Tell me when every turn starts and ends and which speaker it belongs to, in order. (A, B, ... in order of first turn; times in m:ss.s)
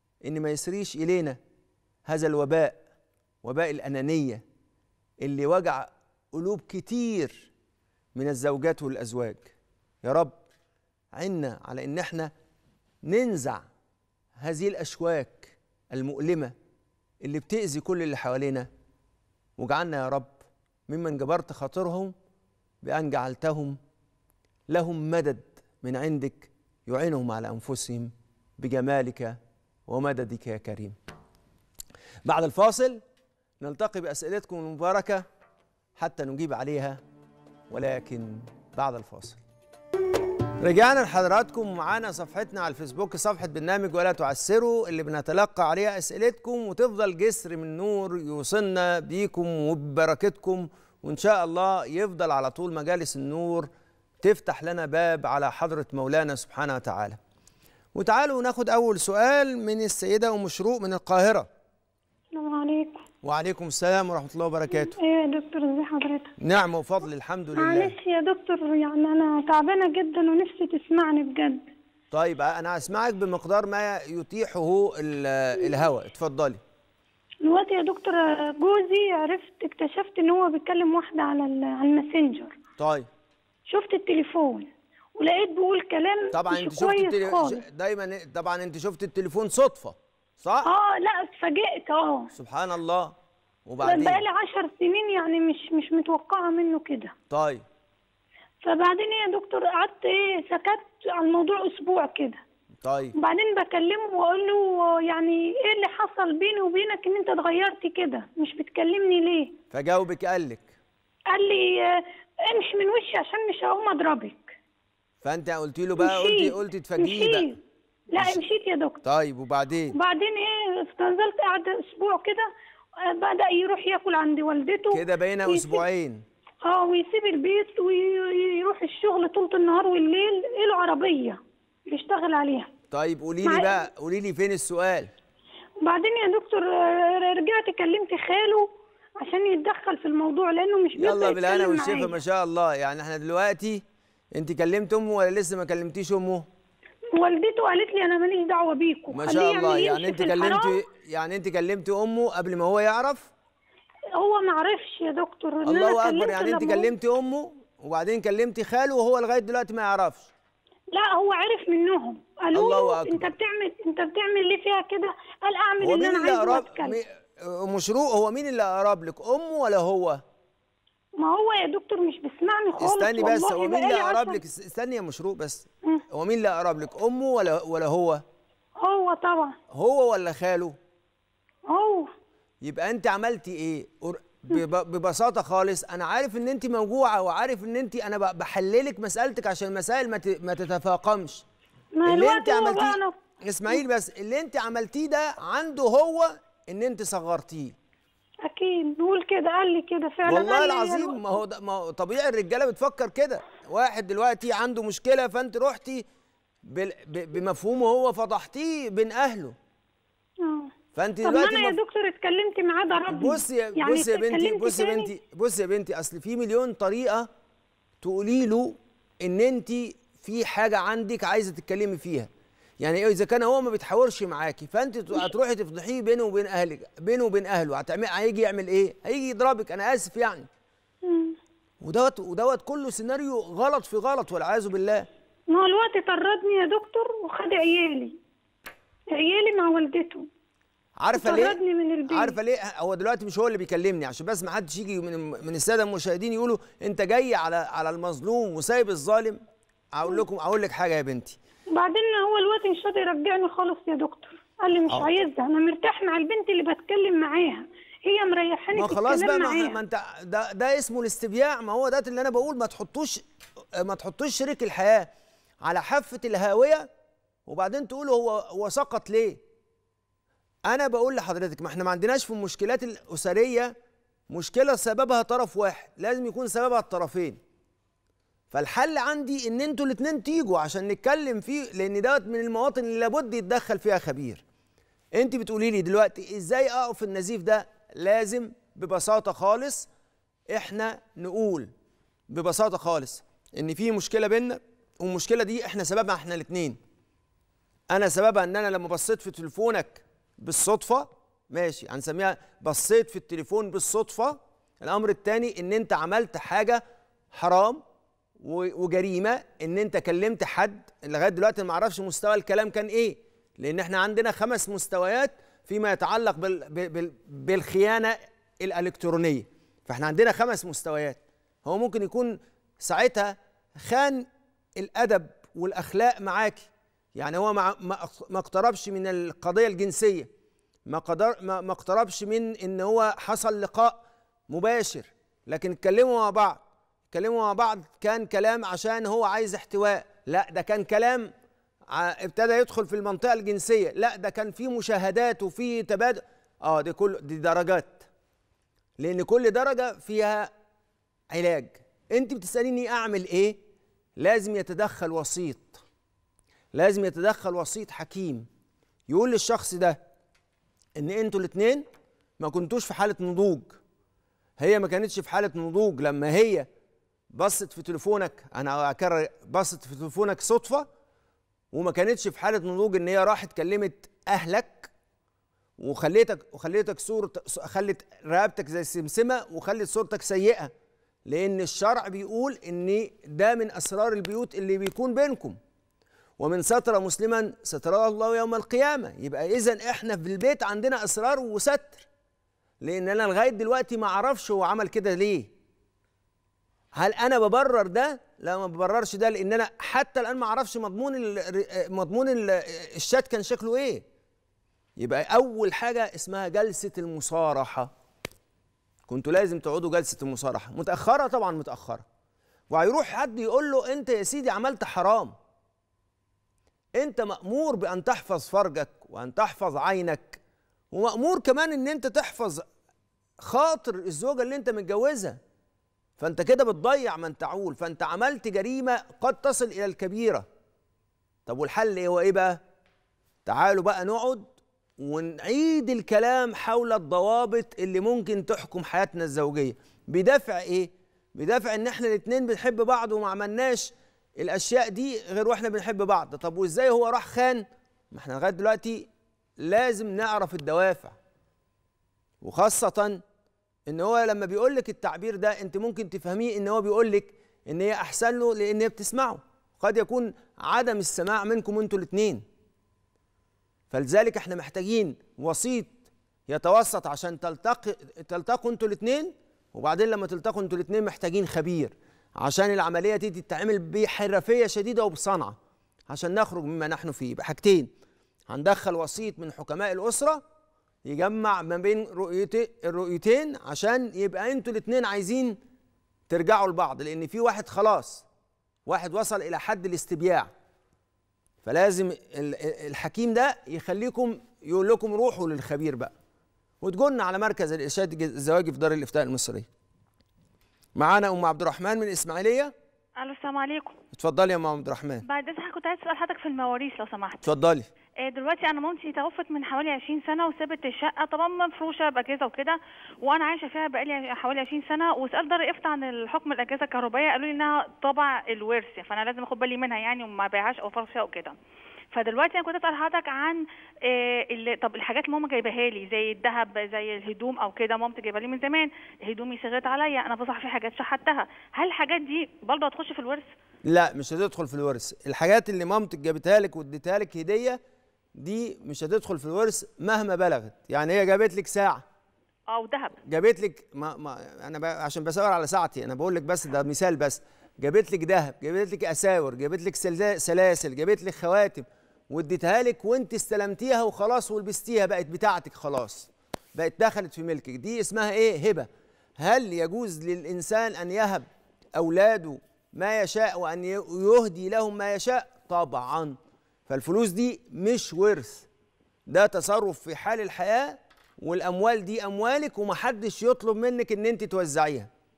0:00.2-0:01.4 A
0:02.1-0:02.8 A
0:03.4-0:04.4 A
0:05.2-0:07.5 A
0:08.1-0:10.4 A
0:11.1-0:12.3 A
0:13.0-0:13.6 A
0:14.4-0:16.5 A
0:17.2-0:18.7 A
0:19.6-0:20.4 A
0:20.9-0:22.1 A
0:22.8-0:23.8 A
0:24.7-0:31.0 A
0:32.2-0:33.0 A
0:33.6-0:35.2 A
0:36.0-0:37.0 A
0:37.7-0:39.4 A
0:40.6-0:53.7 A
0:54.2-0:57.2 A
0:58.0-1:01.5 A
1:02.3-1:03.0 B
1:03.2-1:05.0 A
1:04.7-1:06.3 B
1:06.4-1:08.0 A
1:07.6-1:11.6 B
1:12.1-1:16.6 A
1:17.4-1:22.6 B
1:22.8-1:23.1 A
1:23.7-1:27.6 B
1:26.3-1:30.7 A
1:30.6-1:32.3 B
1:32.3-1:33.1 A
1:33.6-1:34.2 A
1:33.8-1:37.1 B
1:37.3-1:37.6 A
1:38.6-1:42.4 B
1:42.8-1:43.1 A
1:43.2-1:49.6 B
1:49.7-1:50.7 A
1:51.3-1:54.6 B
1:55.2-1:57.6 A
1:56.0-1:57.6 B
1:58.1-1:59.0 B
1:59.0-2:00.0 A
1:59.9-2:05.8 B
2:04.9-2:06.2 A
2:06.6-2:12.7 B
2:12.9-2:15.1 A
2:13.4-2:13.9 B
2:15.8-2:18.7 B
2:19.2-2:22.2 B
2:21.0-2:23.8 A
2:24.3-2:26.5 A
2:27.1-2:30.8 B
2:29.1-2:33.3 A
2:34.2-2:36.9 B
2:35.6-2:40.3 A
2:40.9-2:47.0 B
2:42.5-2:43.3 A
2:45.8-2:50.2 A
2:51.2-2:54.4 B
2:52.8-2:58.2 A
2:58.8-2:59.6 B
2:59.7-3:00.8 A
3:01.7-3:02.1 B
3:02.6-3:11.4 A
3:12.0-3:13.2 B
3:12.0-3:17.8 A
3:18.4-3:21.4 B
3:20.3-3:26.0 A
3:26.7-3:29.6 A
3:30.4-3:35.1 B
3:31.0-3:31.8 A
3:33.1-3:37.3 A
3:38.0-3:50.5 A
3:51.0-3:51.4 B
3:51.8-3:55.1 A
3:55.5-3:58.2 B
3:59.1-4:00.3 B
4:01.0-4:09.4 A
4:01.1-4:02.4 B
4:09.9-4:11.4 A
4:11.7-4:19.8 B
4:18.7-4:23.2 A
4:23.8-4:25.1 A
4:25.6-4:26.9 A
4:27.5-4:29.4 A
4:30.7-4:33.7 A
4:34.3-4:37.4 A
4:38.5-4:44.4 A
4:45.2-4:49.9 A
4:50.5-4:51.7 A
4:52.3-4:56.8 A
4:57.9-5:06.8 A
5:07.3-5:07.8 A
5:08.4-5:24.3 A
5:24.8-5:30.3 A
5:30.9-5:36.6 A
5:37.1-5:41.3 A
5:41.9-5:48.1 A
5:49.0-5:50.5 A
5:51.3-5:53.6 A
5:54.2-5:55.8 A
5:56.7-5:58.5 A
5:59.1-6:00.0 A
6:01.0-6:01.8 A
6:02.4-6:03.8 A
6:04.6-6:06.7 A
6:07.3-6:10.9 A
6:11.7-6:14.9 A
6:15.8-6:20.7 A
6:21.3-6:25.6 A
6:26.4-6:32.0 A
6:32.8-6:35.5 A
6:37.0-6:44.0 A
6:45.0-6:47.9 A
6:49.1-6:52.0 A
6:52.7-6:55.3 A
6:57.0-7:00.4 A
7:00.9-7:02.6 A
7:03.4-7:05.4 A
7:06.2-7:10.5 A
7:11.5-7:12.6 A
7:13.5-7:29.1 A
7:29.6-7:31.2 A
7:32.4-7:33.2 A
7:33.9-7:42.4 A
7:43.9-7:46.0 A
7:46.5-7:55.6 A
7:56.1-7:57.9 A
7:58.5-8:00.4 A
8:01.0-8:05.6 A
8:06.3-8:08.2 A
8:08.9-8:10.5 A
8:11.6-8:16.1 A
8:16.8-8:19.7 A
8:21.0-8:22.7 A
8:23.2-8:24.0 C
8:24.1-8:25.2 A
8:25.2-8:27.4 C
8:27.4-8:27.9 A
8:28.2-8:41.6 C
8:42.1-8:53.5 C
8:53.8-8:57.8 A
8:58.4-9:02.0 A
9:02.7-9:03.2 C
9:03.2-9:18.9 A
9:19.4-9:26.4 A
9:26.9-9:28.7 A
9:29.3-9:35.1 A